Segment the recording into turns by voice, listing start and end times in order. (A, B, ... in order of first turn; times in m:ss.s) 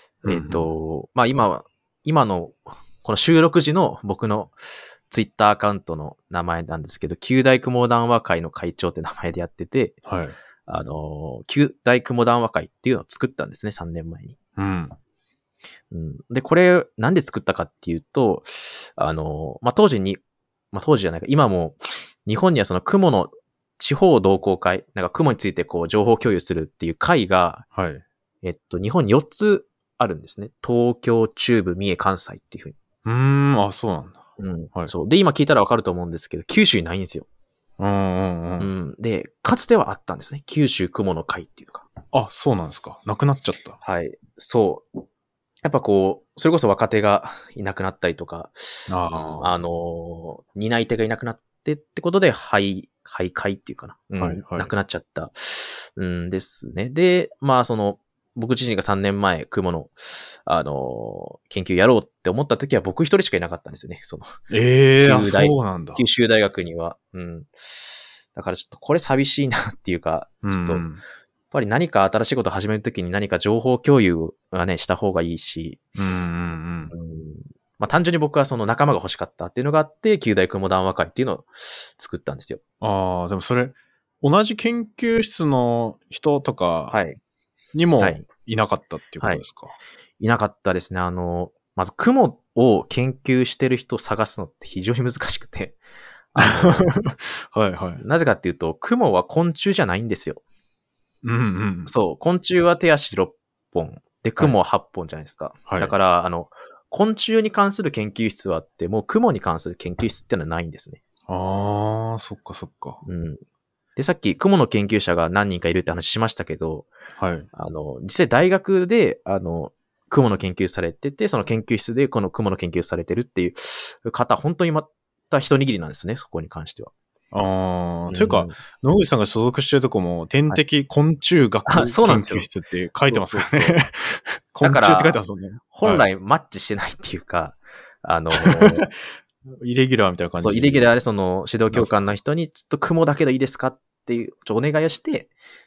0:00.2-0:00.7 A
0:00.2-0:04.6 B
0:05.1-0:10.0 B
0:10.0-0:10.4 A
0:10.6-0:14.4 B
0:14.6-0:15.0 A
0:15.9-0:20.2 B
0:20.7-0:27.6 B
0:27.7-0:28.0 A
0:28.4-0:32.8 B
0:33.0-0:34.2 A
0:34.4-0:37.3 B
0:37.8-0:38.7 A
0:38.6-0:41.9 B
0:42.1-0:43.8 A
0:43.8-0:44.9 B
0:45.6-1:04.4 B
0:48.9-0:49.6 A
0:54.2-0:54.7 A
1:04.5-1:06.0 A
1:05.0-1:10.9 B
1:10.4-1:11.0 A
1:11.5-1:15.8 B
1:16.0-1:16.9 A
1:16.9-1:22.6 B
1:22.8-1:27.0 A
1:26.9-1:27.2 B
1:27.7-1:29.7 A
1:28.0-1:28.3 B
1:30.2-1:35.8 B
1:36.3-1:36.9 B
1:36.4-1:38.0 A
1:38.0-1:40.4 B
1:41.2-1:41.9 A
1:41.9-1:51.0 B
1:45.7-1:46.0 A
1:51.3-1:53.0 A
1:53.0-1:53.4 B
1:54.0-1:56.9 B
1:57.2-1:57.5 A
1:57.5-2:06.9 B
2:07.3-2:16.0 A
2:08.1-2:08.6 B
2:11.7-2:12.5 B
2:13.1-2:13.8 B
2:14.6-2:15.2 B
2:15.7-2:18.9 B
2:18.3-2:18.9 A
2:19.6-2:20.9 A
2:20.4-2:25.3 B
2:21.7-2:22.0 A